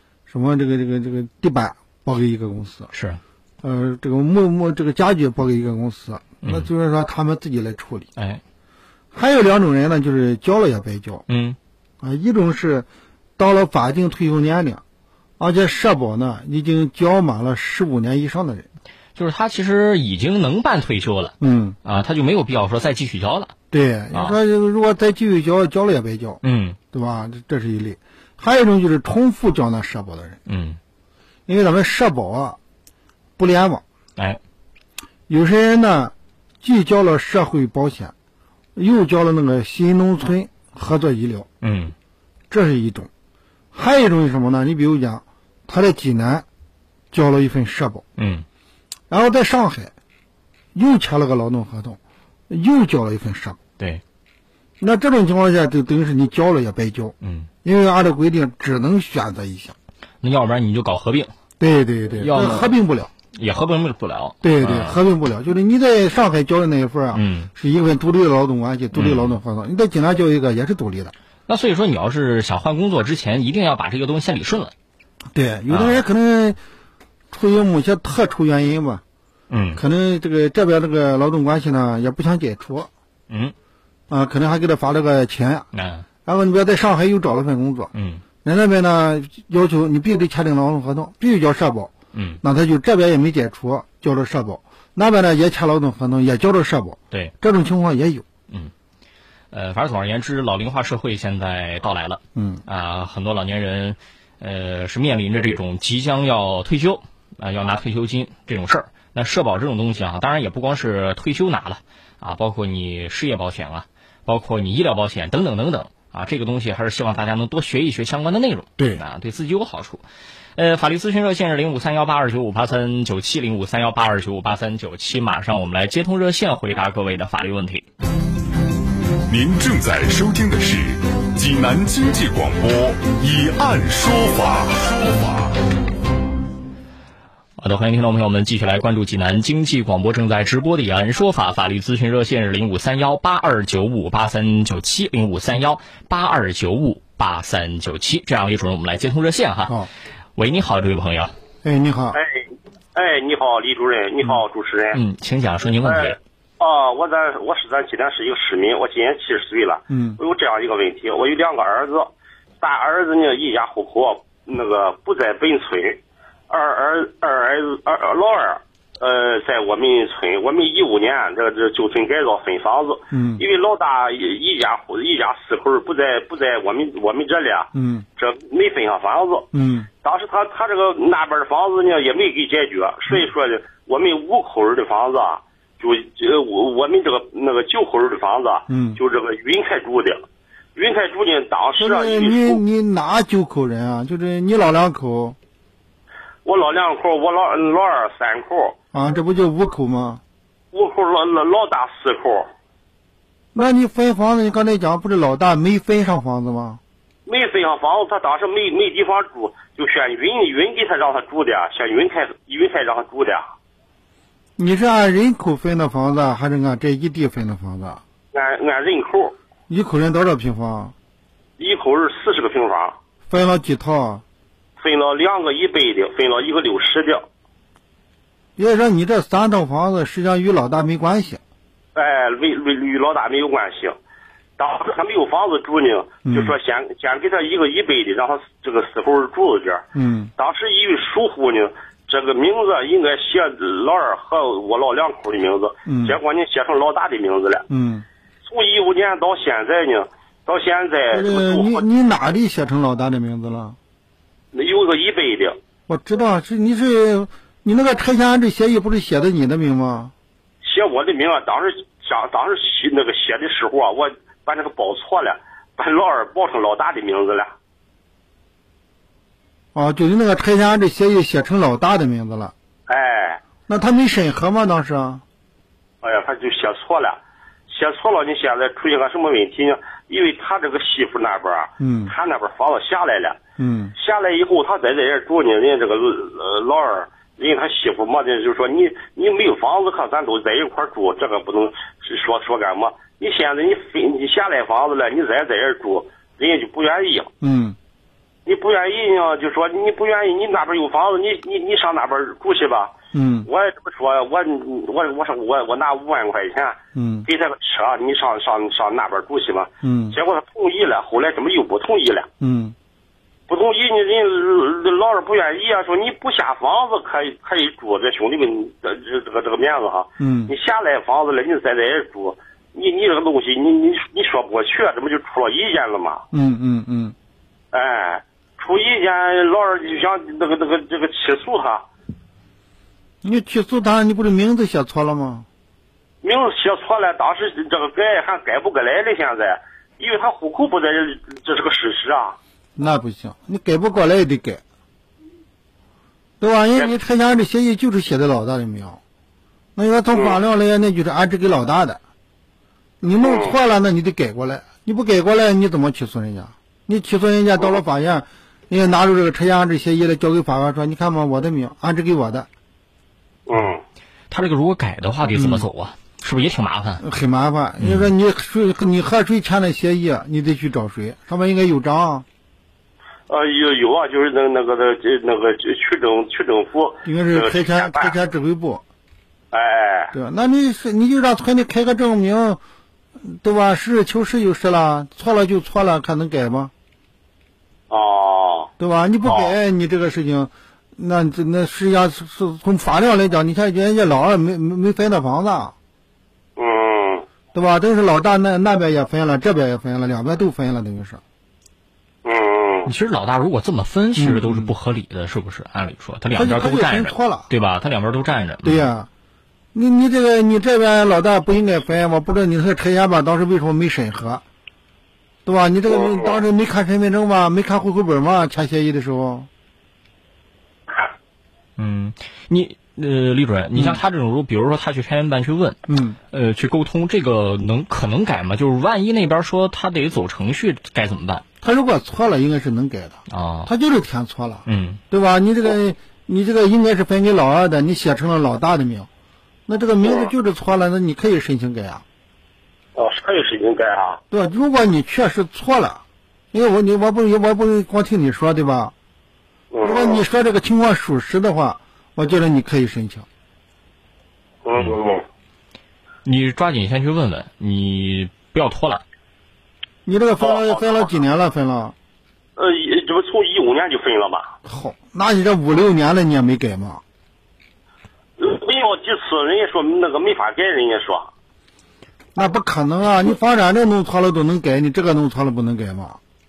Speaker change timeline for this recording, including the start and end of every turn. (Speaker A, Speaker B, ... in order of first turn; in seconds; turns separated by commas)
Speaker A: 0.3-2.9, Speaker B: 2.9-3.2, Speaker A: 3.6-8.1, Speaker B: 6.4-6.7, Speaker B: 8.2-8.4, Speaker A: 9.1-11.2, Speaker B: 11.3-11.6, Speaker A: 12.0-14.8, Speaker A: 15.4-18.7, Speaker B: 19.1-23.5, Speaker A: 21.4-21.8, Speaker A: 23.7-26.4, Speaker B: 24.1-24.4, Speaker B: 26.4-26.8, Speaker A: 26.9-30.4, Speaker B: 30.5-30.8, Speaker A: 31.5-32.6, Speaker A: 33.4-33.8, Speaker A: 35.3-38.1, Speaker A: 38.8-41.5, Speaker B: 41.6-41.9, Speaker A: 42.5-43.1, Speaker A: 43.7-46.5, Speaker A: 47.1-48.0, Speaker B: 48.2-48.5, Speaker A: 49.1-49.9, Speaker A: 50.7-53.6, Speaker A: 54.8-59.8, Speaker B: 57.2-57.5, Speaker B: 60.2-61.3, Speaker A: 61.6-63.1, Speaker B: 62.2-62.8, Speaker B: 63.3-65.0, Speaker A: 64.4-71.1, Speaker B: 67.1-67.5, Speaker B: 68.9-69.4, Speaker B: 71.5-74.7, Speaker A: 75.3-76.6, Speaker B: 75.7-76.0, Speaker A: 77.3-79.0, Speaker B: 79.5-79.8, Speaker A: 79.8-82.9, Speaker B: 83.3-83.5, Speaker A: 84.1-85.7, Speaker B: 85.7-86.1, Speaker A: 86.2-87.9, Speaker B: 87.9-88.2, Speaker A: 88.4-98.2, Speaker B: 92.1-92.4, Speaker B: 99.5-120.0, Speaker A: 102.3-102.6, Speaker B: 120.6-127.8, Speaker C: 129.3-135.5, Speaker B: 137.6-149.7, Speaker B: 150.4-151.3, Speaker A: 151.6-152.2, Speaker D: 152.1-152.4, Speaker D: 152.9-155.0, Speaker B: 154.9-156.2, Speaker D: 155.9-162.1, Speaker A: 159.9-160.2, Speaker D: 162.6-179.5, Speaker A: 173.1-173.4, Speaker A: 177.7-178.1, Speaker A: 179.5-179.9, Speaker D: 180.0-190.2, Speaker A: 188.7-189.0, Speaker D: 190.8-192.6, Speaker A: 191.8-195.4, Speaker D: 196.4-198.8, Speaker A: 198.9-200.2, Speaker D: 200.7-202.5, Speaker A: 203.6-206.8, Speaker D: 207.2-213.5, Speaker A: 214.6-218.0, Speaker D: 218.3-219.3, Speaker A: 219.7-220.9, Speaker D: 221.6-223.0, Speaker A: 223.3-224.2, Speaker D: 224.8-227.2, Speaker A: 228.6-231.4, Speaker D: 231.9-233.9, Speaker D: 234.6-239.8, Speaker A: 236.2-236.6, Speaker A: 239.9-240.3, Speaker D: 240.4-247.6, Speaker A: 245.9-246.2, Speaker A: 247.7-248.1, Speaker D: 248.4-251.8, Speaker A: 251.1-253.8, Speaker D: 254.5-255.6, Speaker A: 255.9-260.1, Speaker D: 260.6-267.5, Speaker A: 269.8-272.5, Speaker D: 272.9-273.4, Speaker A: 273.7-275.2, Speaker D: 276.0-283.4, Speaker A: 281.8-282.1, Speaker A: 283.6-283.9, Speaker D: 284.0-297.3, Speaker A: 297.4-297.8, Speaker D: 298.5-302.9, Speaker A: 303.1-303.5, Speaker D: 303.5-312.3, Speaker A: 306.9-307.3, Speaker A: 309.8-310.2, Speaker A: 312.4-312.8, Speaker D: 313.5-326.2, Speaker A: 320.2-320.5, Speaker A: 326.3-327.1, Speaker D: 327.7-331.9, Speaker A: 333.2-335.5, Speaker D: 336.2-342.4, Speaker A: 342.8-344.6, Speaker A: 346.4-349.0, Speaker A: 349.8-352.0, Speaker D: 350.1-350.4, Speaker A: 353.0-362.5, Speaker D: 353.2-353.5, Speaker D: 363.5-363.8, Speaker B: 364.3-367.0, Speaker A: 365.4-365.6, Speaker A: 367.0-372.2, Speaker B: 367.8-368.1, Speaker D: 373.3-378.1, Speaker A: 377.1-378.8, Speaker D: 379.5-380.1, Speaker A: 380.1-382.6, Speaker A: 383.2-386.7, Speaker D: 387.9-388.7, Speaker A: 388.8-395.8, Speaker D: 389.3-389.5, Speaker D: 396.6-397.2, Speaker A: 397.5-401.2, Speaker D: 402.2-402.9, Speaker B: 402.9-408.9, Speaker A: 404.1-404.7, Speaker A: 406.3-407.5, Speaker A: 408.6-409.1, Speaker A: 409.7-414.4, Speaker A: 415.4-419.5, Speaker D: 415.9-416.4, Speaker B: 421.8-425.8, Speaker A: 425.9-426.2, Speaker B: 426.3-431.4, Speaker A: 431.6-439.1, Speaker B: 433.3-433.7, Speaker B: 434.6-435.0, Speaker A: 439.7-442.0, Speaker D: 440.0-440.3, Speaker D: 443.0-444.2, Speaker A: 444.3-448.9, Speaker D: 449.7-450.2, Speaker A: 449.8-453.2, Speaker D: 454.6-455.2, Speaker B: 456.2-459.0, Speaker A: 460.1-461.9, Speaker D: 460.4-461.0, Speaker D: 462.6-464.5, Speaker A: 464.6-467.0, Speaker D: 468.4-471.3, Speaker A: 472.4-476.2